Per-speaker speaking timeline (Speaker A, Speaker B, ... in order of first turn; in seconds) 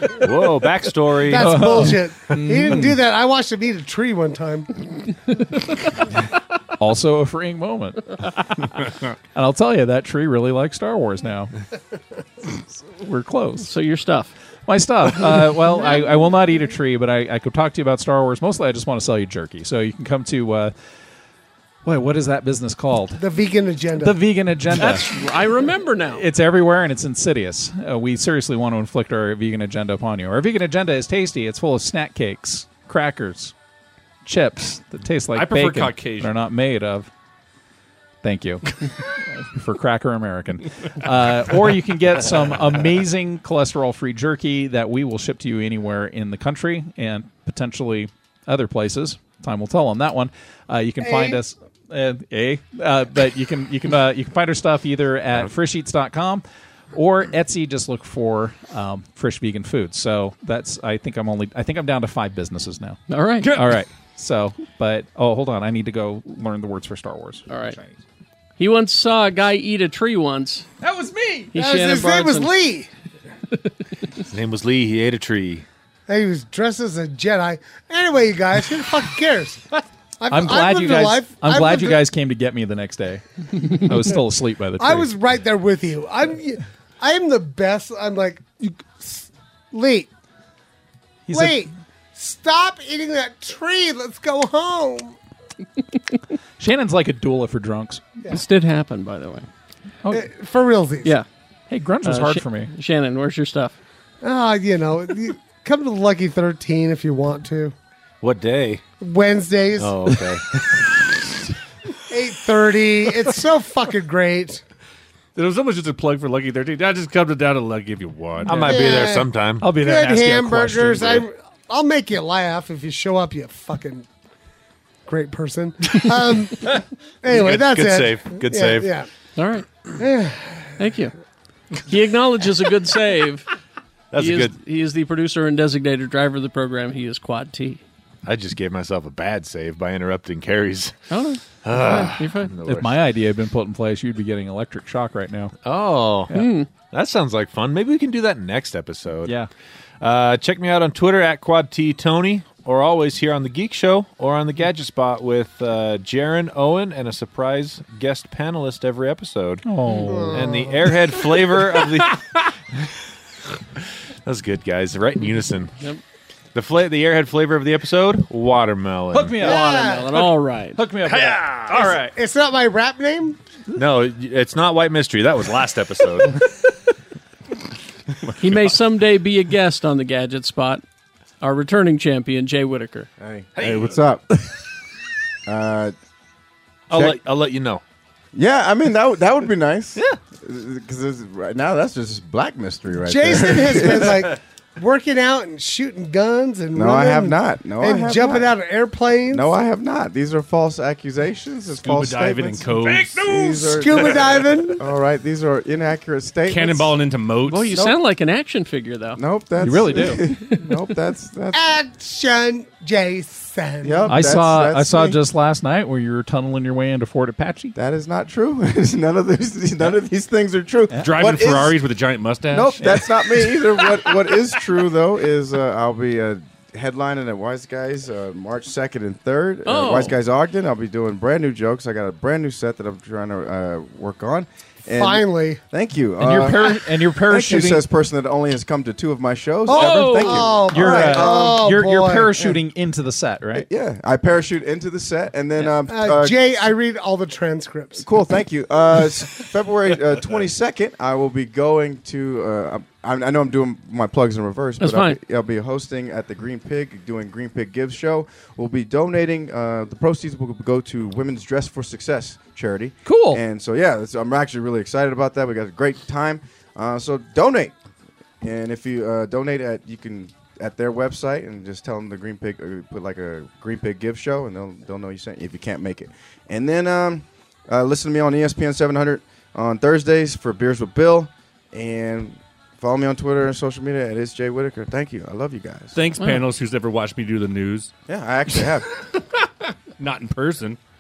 Speaker A: 0.2-2.0, 74.3-75.7, 108.2-108.8, 109.8-110.8, 118.5-119.7, 127.3-128.9, 134.1-134.6, 138.2-140.9, 141.6-143.0, 145.6-149.4, 150.0-159.7, 160.3-162.2, 164.2-165.7, 166.5-169.4, 173.8-176.4, 183.6-183.9, 186.9-187.8
Speaker B: 1.2-4.8, 23.2-24.2, 51.0-51.4, 71.5-72.9, 76.1-79.7, 80.2-82.0, 84.8-90.1, 91.3-95.2, 100.1-101.2, 104.2-107.7, 109.0-110.2, 112.1-114.6, 118.7-124.1, 125.1-129.1, 130.0-130.9, 160.0-161.0, 169.4-170.2, 171.7-173.4, 193.1-199.5, 203.8-204.8, 211.5-214.2, 235.0-235.6, 239.7-242.6, 245.7-248.1
Speaker C: 1.3-3.0, 6.8-8.3, 9.3-11.5, 12.7-13.7, 14.7-20.7, 21.9-23.2, 24.0-25.2, 26.1-33.5, 34.2-37.1, 38.2-38.7, 39.3-67.5, 80.3-85.1, 91.3-91.6, 96.6-98.0, 101.7-102.7, 118.5-118.8, 119.6-121.2, 142.7-145.6, 149.2-149.5, 159.6-160.5, 169.1-169.7, 170.3-171.9, 209.6-210.2, 214.1-217.8, 220.9-221.2, 236.2-237.8, 240.7-243.7, 263.1-263.4
Speaker D: 13.6-14.3, 24.7-26.2, 63.1-63.6, 67.5-67.8, 68.6-70.7, 71.5-72.5, 98.3-99.5, 102.0-103.8, 129.4-129.7, 130.8-131.1, 131.8-133.5, 134.2-137.8, 141.1-142.6, 146.3-146.7, 169.4-170.8, 178.4-180.8, 181.4-183.1, 207.5-209.2, 229.7-230.1, 239.7-240.6, 254.8-255.2
Speaker E: 35.3-36.3, 115.3-118.7, 171.1-171.9, 201.8-204.5, 206.5-207.8, 221.0-224.1, 285.9-287.9, 290.0-290.8
Speaker F: 183.2-184.2, 185.5-185.9, 186.9-187.2, 188.3-194.3, 196.7-198.5, 199.3-207.0, 209.2-211.7, 213.8-215.2, 217.8-221.8, 222.5-241.7, 243.5-246.4, 248.0-267.8, 268.4-285.9, 288.1-288.9